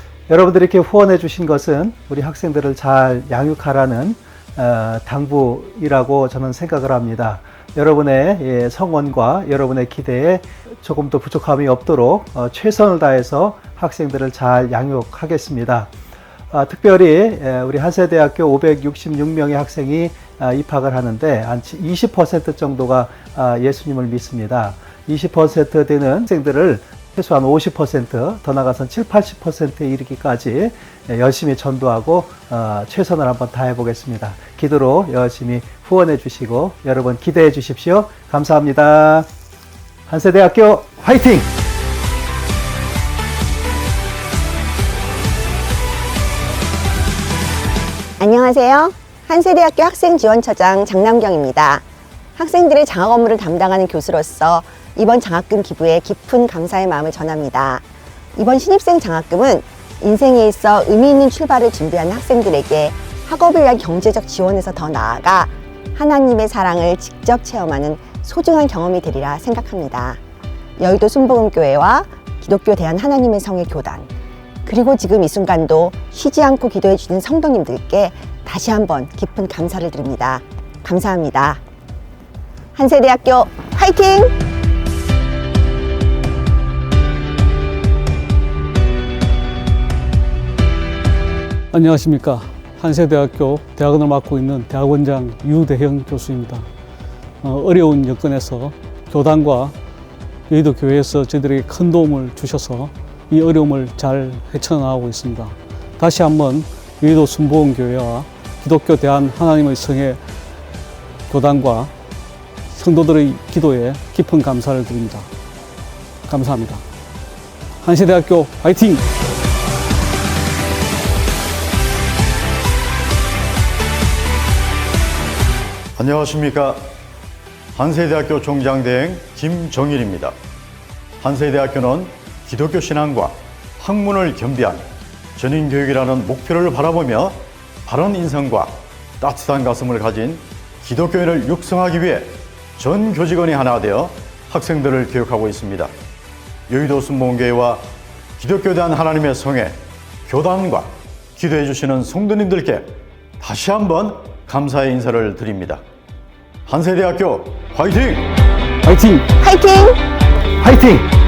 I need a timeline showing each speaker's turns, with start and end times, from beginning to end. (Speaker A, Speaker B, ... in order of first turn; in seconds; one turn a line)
Speaker A: 0.3-15.9
Speaker A: 16.5-39.3
Speaker A: 40.1-41.5
Speaker B: 48.2-51.8
Speaker B: 52.4-57.8
Speaker B: 58.3-70.2
Speaker B: 70.8-74.1
Speaker B: 74.6-81.6
Speaker B: 82.7-84.3
Speaker C: 91.7-96.7
Speaker C: 97.4-99.7
Speaker C: 100.5-110.2
Speaker C: 111.3-111.9
Speaker C: 112.7-115.3
Speaker C: 116.3-116.8
Speaker C: 117.8-119.0
Speaker D: 126.0-126.9
Speaker D: 127.7-130.3
Speaker D: 131.2-145.9
Speaker D: 146.7-155.8
Speaker D: 156.7-158.3
Speaker C: 158.9-159.2
Speaker B: 159.3-160.0
Speaker A: 160.6-161.0